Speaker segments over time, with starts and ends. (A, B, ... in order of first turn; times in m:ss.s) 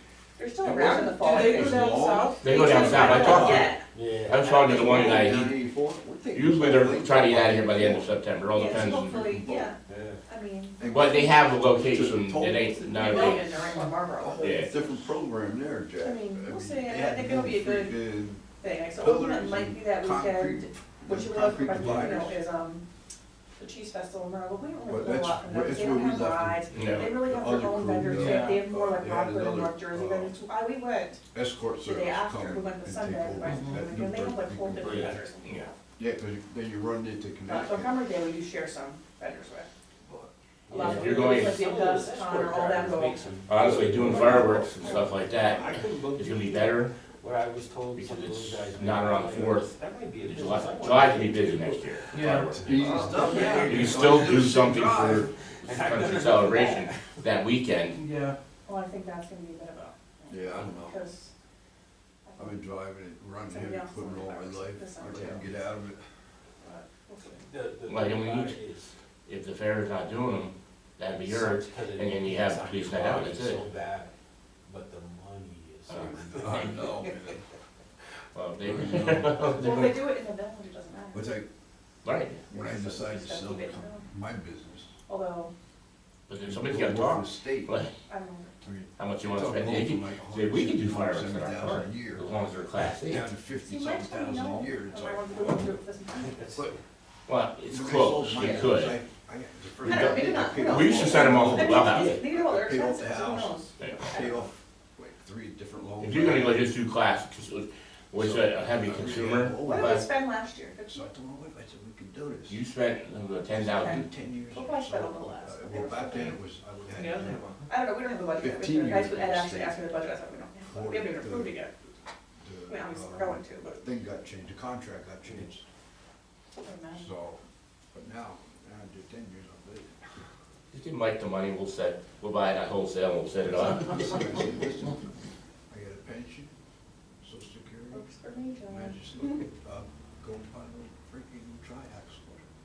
0:00.4-0:03.8 A
0:00.6-0:03.8 B
0:01.2-0:03.4 C
0:02.4-0:05.6 D
0:03.9-0:04.4 E
0:04.5-0:08.1 B
0:06.3-0:09.3 D
0:08.5-0:11.3 A
0:08.7-0:09.7 B
0:09.9-0:10.2 E
0:10.8-0:13.6 B
0:10.9-0:13.5 D
0:12.7-0:14.9 A
0:14.2-0:18.4 B
0:14.4-0:14.7 D
0:16.0-0:22.9 A
0:19.0-0:22.4 B
0:21.7-0:22.2 E
0:23.6-0:31.2 A
0:24.9-0:30.4 B
0:26.7-0:27.1 D
0:28.0-0:28.7 C
0:31.3-0:35.3 B
0:31.8-0:35.8 A
0:33.4-0:33.8 C
0:34.8-0:35.2 E
0:36.0-0:38.0 B
0:37.5-0:39.7 A
0:40.0-0:40.3 B
0:40.7-0:54.4 E
0:40.7-0:43.2 A
0:40.7-0:41.6 D
0:43.5-0:46.9 D
0:43.9-0:44.6 B
0:44.1-0:45.0 A
0:47.9-0:58.0 D
0:52.1-0:52.6 C
0:52.6-0:55.3 B
0:53.1-0:53.6 C
0:55.3-0:57.2 E
0:58.0-0:58.4 C
0:58.7-1:01.3 A
1:00.3-1:01.0 B
1:02.3-1:02.6 A
1:02.4-1:06.0 B
1:03.5-1:05.5 A
1:06.6-1:07.5 A
1:07.4-1:09.0 E
1:07.9-1:08.6 D
1:09.3-1:13.6 D
1:11.1-1:14.1 E
1:14.6-1:17.2 E
1:15.9-1:16.7 D
1:15.9-1:17.4 B
1:18.4-1:20.0 D
1:18.6-1:19.8 B
1:19.4-1:21.3 A
1:21.1-1:21.5 B
1:22.0-1:22.4 D
1:22.5-1:24.1 A
1:22.5-1:24.9 B
1:25.1-1:25.5 A
1:26.3-1:27.9 D
1:26.4-1:27.7 B
1:28.1-1:28.6 A
1:28.6-1:32.3 B
1:29.0-1:33.3 D
1:33.0-1:35.7 B
1:33.6-1:36.4 A
1:36.1-1:36.8 E
1:37.3-1:39.0 D
1:37.7-1:46.7 B
1:39.8-1:44.5 A
1:39.8-1:42.2 D
1:46.0-1:50.1 D
1:48.2-1:50.1 B
1:49.6-1:51.0 A
1:50.9-1:52.6 B
1:52.5-1:54.1 D
1:53.4-1:57.6 B
1:53.8-1:56.4 A
1:56.9-1:57.6 C
1:57.7-2:01.7 A
1:58.4-1:59.8 B
2:00.6-2:01.6 B
2:02.4-2:05.6 B
2:02.7-2:03.8 A
2:06.6-2:07.1 A
2:06.9-2:07.4 B
2:07.9-2:10.0 B
2:10.7-2:14.2 D
2:13.6-2:15.1 B
2:15.7-2:16.5 B
2:17.2-2:18.1 B
2:17.9-2:19.4 A
2:18.7-2:22.5 B